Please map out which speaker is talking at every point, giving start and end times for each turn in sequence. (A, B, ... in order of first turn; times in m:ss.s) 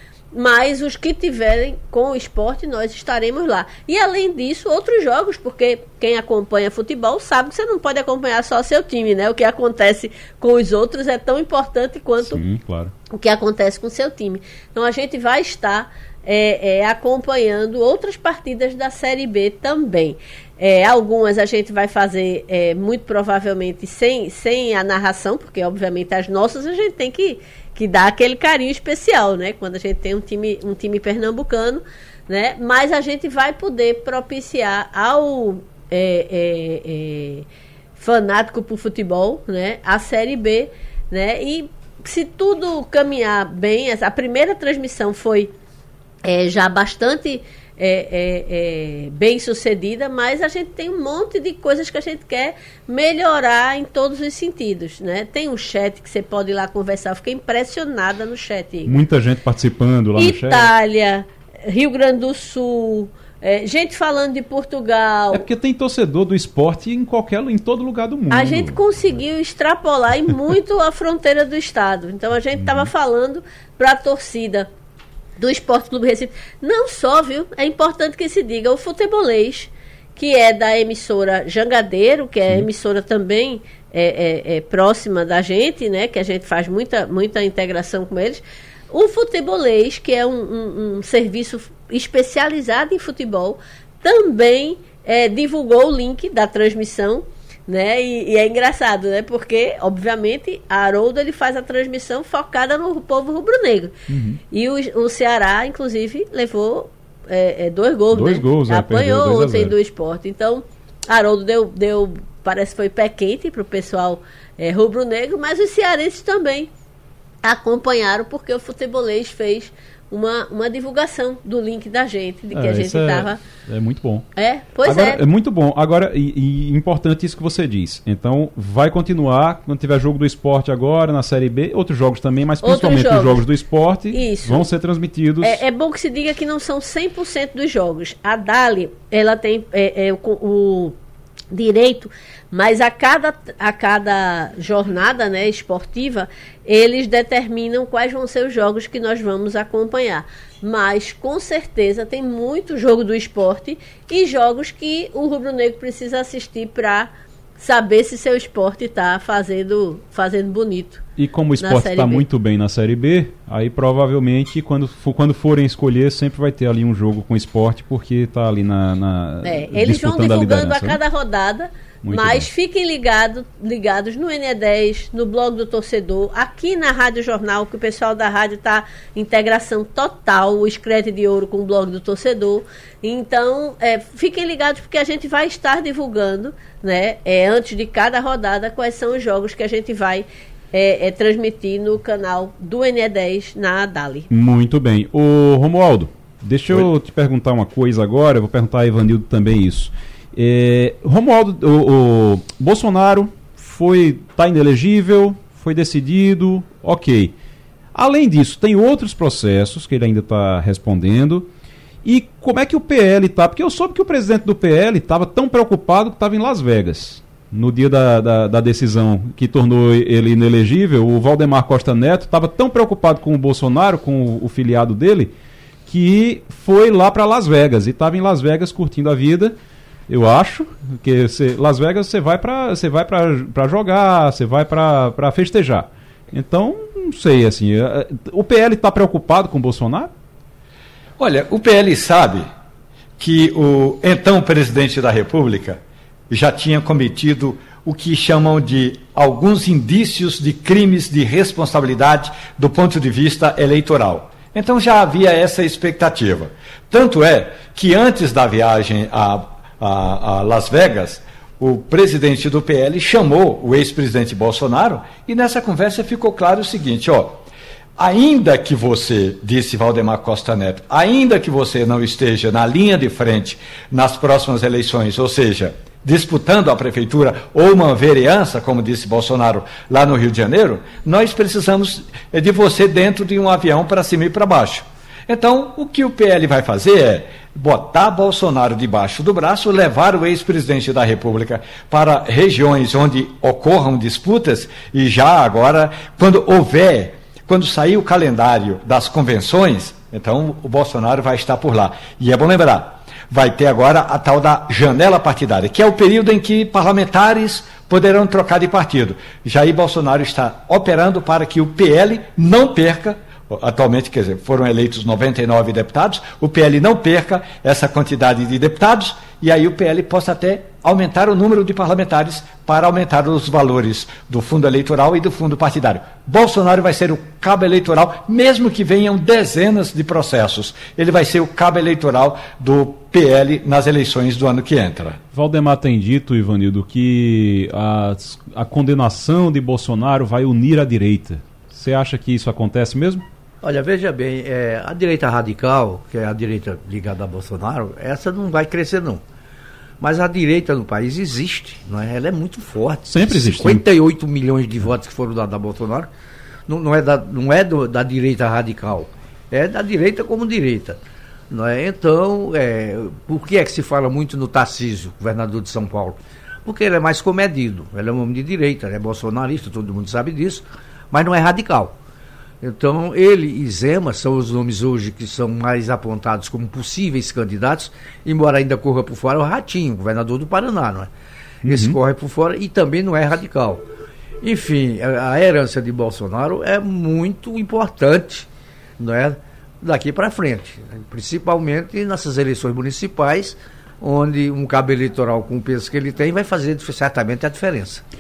0:00.3-0:12.4 A
0:12.2-0:12.9 B
0:13.1-0:37.5 A
0:38.0-0:45.5 A
0:46.2-0:59.0 A
0:58.9-1:00.7 B
1:00.2-1:05.4 A
1:05.3-1:08.8 B
1:08.3-1:14.7 A
1:12.6-1:12.9 B
1:15.4-1:44.0 A
1:44.1-1:44.4 B
1:44.5-1:56.7 A
1:48.1-1:49.8 B
1:57.4-2:03.4 A
2:02.5-2:04.3 B
2:04.4-2:05.2 A
2:04.8-2:15.6 B
2:12.6-2:13.4 A
2:14.1-2:14.7 A
2:15.4-2:21.0 A
2:21.5-2:41.0 A
2:41.2-2:51.0 B
2:41.6-2:42.2 A
2:49.4-3:14.3 A
2:52.0-2:52.5 B
3:14.3-3:27.3 B
3:28.0-3:31.5 B
3:32.0-3:45.3 B
3:45.9-3:49.6 B
3:50.1-4:00.1 B
4:01.2-4:02.5 C
4:03.2-4:27.4 C
4:28.0-5:35.2 C
5:35.3-5:43.2 B
5:43.6-5:49.2 D
5:50.0-5:56.1 D
5:53.1-5:53.8 B
5:56.7-6:01.0 D
6:01.5-6:12.0 D
6:12.6-6:21.1 D
6:21.6-6:23.8 D
6:21.6-6:22.0 B
6:24.4-6:38.0 D